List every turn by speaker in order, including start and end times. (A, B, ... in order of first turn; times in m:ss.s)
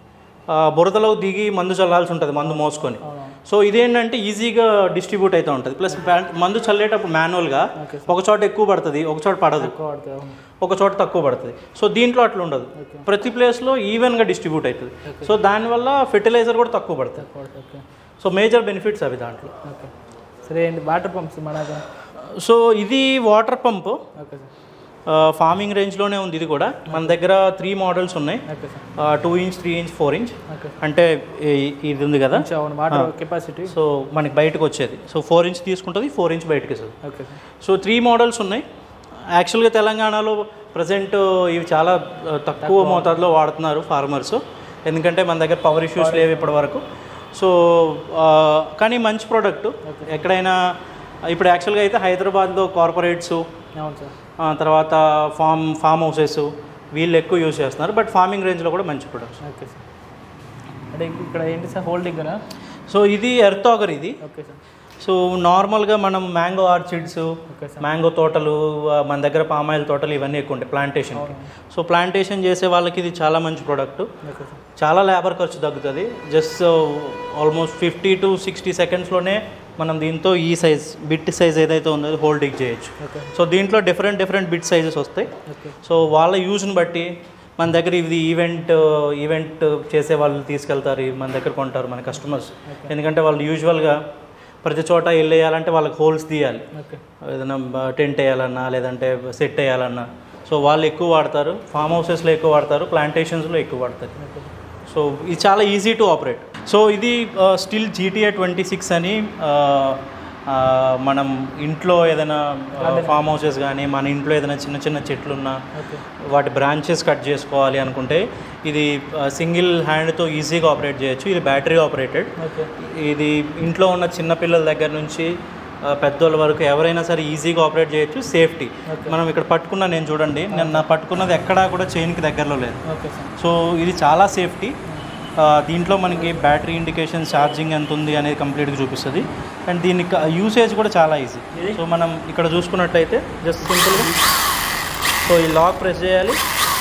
0:00.5-0:09.7 A
0:02.4-0:03.4 B
0:07.8-0:08.1 B
0:09.6-0:10.4 B
0:10.6-0:17.2 A
0:12.8-0:13.1 B
0:15.0-0:15.3 B
0:17.2-0:17.8 B
0:18.2-0:19.5 A
0:19.6-0:19.9 B
0:20.4-0:21.8 B
0:22.2-0:24.0 A
0:24.2-0:24.5 B
0:25.0-0:28.4 A
0:26.9-0:27.2 B
0:28.5-0:28.8 B
0:28.9-0:33.1 A
0:30.5-0:30.8 B
0:32.3-0:33.7 B
0:33.6-0:37.0 A
0:37.0-0:37.4 B
0:37.6-0:38.6 A
0:39.3-0:50.6 A
0:42.6-0:43.2 B
0:46.0-0:46.5 B
0:49.8-0:50.2 B
0:51.3-0:53.4 A
0:53.8-0:54.1 B
0:54.4-0:59.4 A
0:59.4-0:59.8 B
1:00.9-1:02.4 B
1:02.9-1:04.2 A
1:04.2-1:04.6 B
1:05.0-1:14.1 A
1:07.5-1:07.9 B
1:11.1-1:11.5 B
1:14.2-1:14.6 B
1:14.8-1:25.3 A
1:23.0-1:23.3 B
1:25.4-1:25.8 B
1:25.8-1:34.0 A
1:32.7-1:32.9 B
1:34.6-1:36.7 A
1:36.7-1:37.0 B
1:37.2-1:44.2 A
1:44.2-1:44.5 B
1:44.9-1:55.6 A
1:52.8-1:53.2 B
1:55.7-1:56.0 B
1:56.2-2:05.3 A
2:02.4-2:02.7 B
2:05.8-2:12.8 A
2:08.8-2:09.2 B
2:10.5-2:10.8 B
2:12.8-2:13.3 B
2:13.4-2:14.8 A
2:15.4-2:24.1 A
2:21.5-2:21.8 B
2:23.7-2:24.1 B
2:25.2-2:26.4 A